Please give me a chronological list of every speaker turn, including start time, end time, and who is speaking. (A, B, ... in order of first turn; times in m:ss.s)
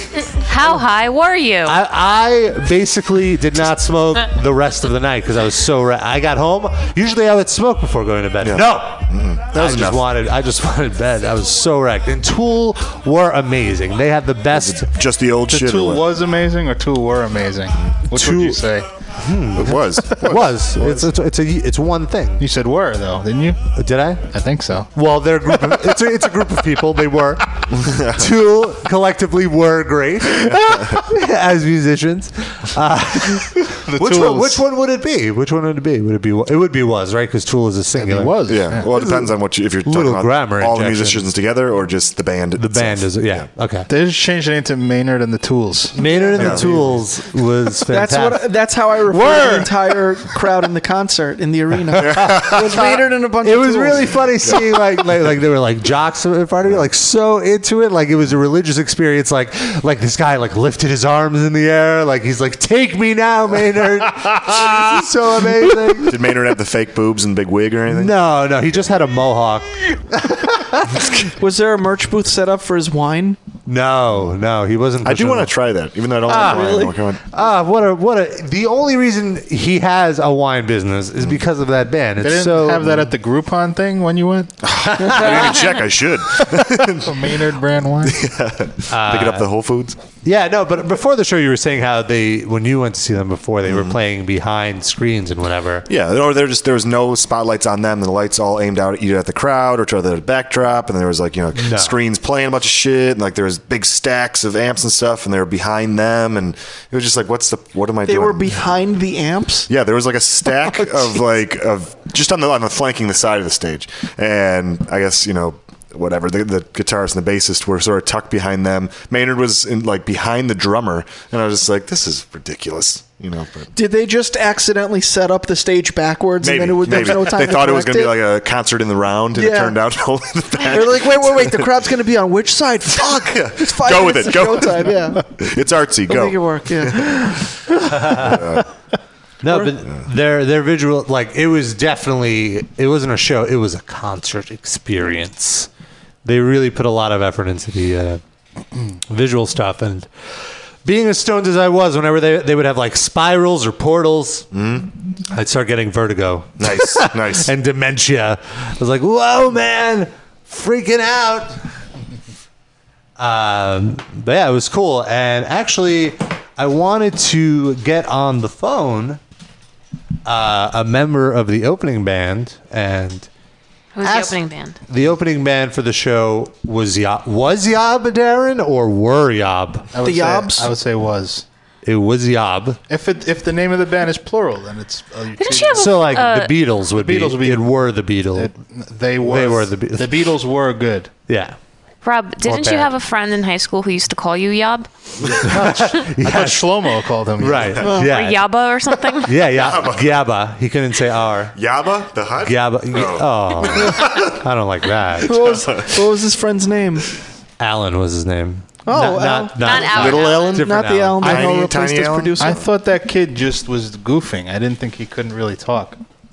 0:00.4-0:01.8 A
0:01.6-0:14.9 B
0:08.4-0:10.2 C
0:14.5-0:16.1 C
0:15.5-0:18.9 D
0:18.1-0:18.6 B
0:19.2-0:22.4 B
0:19.5-0:20.3 C
0:22.4-0:23.6 D
0:23.7-0:24.3 B
0:24.3-0:24.9 D
0:24.9-0:38.8 B
0:27.7-0:28.3 C
0:30.4-0:31.1 C
0:33.7-0:34.5 C
0:34.0-0:34.5 D
0:38.0-0:39.0 D
0:38.4-0:43.5 C
0:39.8-0:41.3 B
0:42.6-0:43.9 B
0:43.9-0:47.0 D
0:45.9-0:48.5 B
0:46.1-0:46.5 E
0:46.4-0:46.6 C
0:47.9-0:54.1 E
0:49.1-0:49.7 D
0:52.0-0:52.7 C
0:53.4-1:06.1 B
1:06.0-1:08.2 C
1:07.9-1:10.9 B
1:11.3-1:13.4 E
1:13.7-1:15.5 B
1:15.0-1:17.2 C
1:16.3-1:17.0 E
1:16.3-1:23.1 B
1:22.2-1:24.6 D
1:24.6-1:27.1 C
1:24.9-1:25.6 B
1:26.6-1:28.2 D
1:28.0-1:30.0 C
1:28.9-1:29.5 B
1:30.2-1:35.9 B
1:33.6-1:34.0 C
1:35.9-1:48.7 C
1:41.5-1:41.9 B
1:48.0-1:49.7 E
1:49.7-2:03.7 C
1:50.7-1:51.2 E
2:03.7-2:08.2 E
2:06.4-2:11.7 C
2:09.4-2:09.8 E
2:10.7-2:15.2 E
2:12.9-2:17.2 C
2:16.1-2:17.5 E
2:17.9-2:18.4 B
2:18.0-2:18.6 C
2:19.4-2:25.7 B
2:26.2-2:28.2 B
2:29.1-2:30.1 B
2:30.8-2:34.5 B
2:34.5-2:34.9 C
2:35.3-2:41.6 B
2:36.6-2:37.5 C
2:43.2-2:49.2 B
2:50.2-2:53.3 B
2:53.9-2:54.8 A
2:54.0-2:59.9 B
2:59.9-3:01.4 D
3:00.0-3:00.7 E
3:01.8-3:02.8 B
3:02.9-3:05.9 D
3:05.4-3:06.5 A
3:05.7-3:08.5 B
3:06.9-3:07.7 D
3:08.3-3:11.1 D
3:09.2-3:10.2 B
3:11.3-3:11.6 B
3:12.0-3:14.9 A
3:12.5-3:12.9 B
3:15.4-3:16.7 B
3:15.9-3:17.9 D
3:17.4-3:18.4 B
3:18.0-3:19.4 A
3:19.2-3:21.6 B
3:19.5-3:20.2 C
3:21.5-3:24.2 C
3:22.4-3:25.4 B
3:25.2-3:27.1 E
3:25.3-3:26.0 C
3:27.6-3:31.6 B
3:28.8-3:32.6 E
3:29.6-3:30.6 A
3:29.9-3:32.6 C
3:32.4-3:36.0 D